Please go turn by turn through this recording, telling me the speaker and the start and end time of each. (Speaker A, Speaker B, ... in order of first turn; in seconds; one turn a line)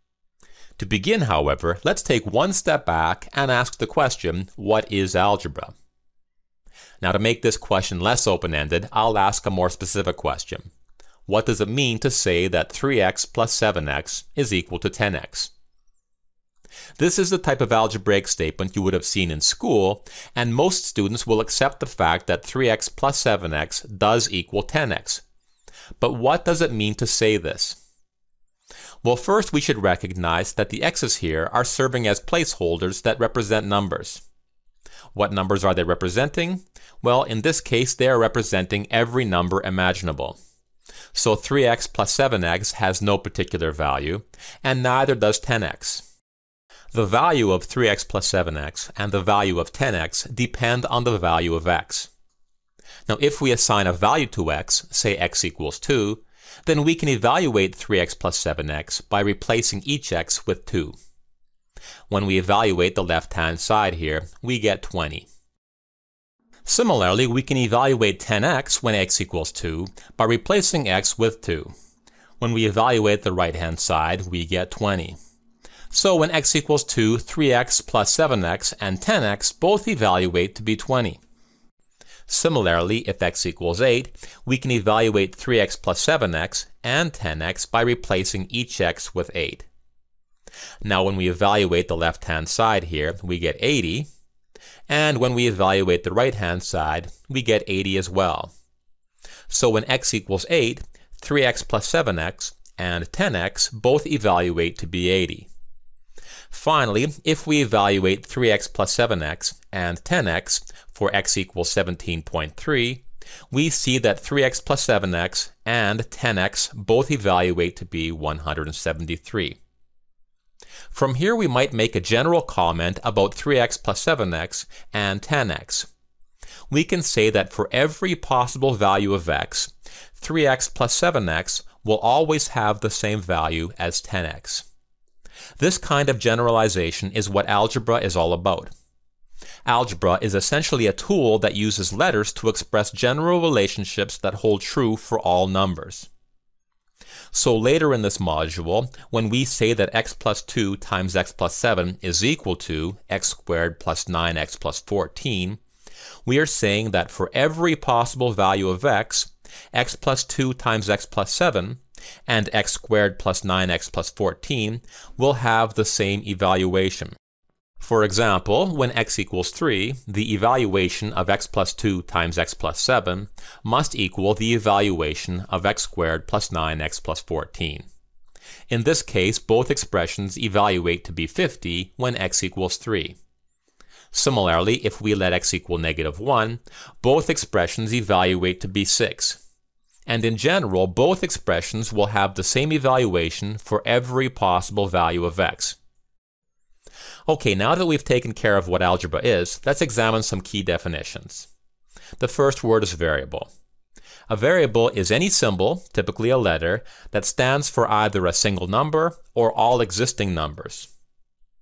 Speaker A: 0.8-5.7
Speaker A: 7.0-10.7
Speaker A: 11.3-15.5
Speaker A: 17.0-25.2
Speaker A: 26.0-27.8
Speaker A: 29.0-34.2
Speaker A: 35.1-40.4
Speaker A: 41.1-46.0
Speaker A: 46.9-52.1
Speaker A: 53.1-61.0
Speaker A: 62.1-65.3
Speaker A: 66.6-71.7
Speaker A: 72.4-75.2
Speaker A: 75.9-81.2
Speaker A: 82.3-89.7
Speaker A: 90.8-94.1
Speaker A: 94.9-98.5
Speaker A: 99.5-105.5
Speaker A: 106.5-119.6
Speaker A: 120.9-125.9
Speaker A: 126.7-134.7
Speaker A: 135.6-138.7
Speaker A: 139.7-146.1
Speaker A: 147.3-155.6
Speaker A: 156.2-167.1
Speaker A: 167.8-177.9
Speaker A: 178.7-183.2
Speaker A: 184.1-189.4
Speaker A: 190.1-195.8
Speaker A: 197.3-201.5
Speaker A: 202.2-203.5
Speaker A: 204.3-210.9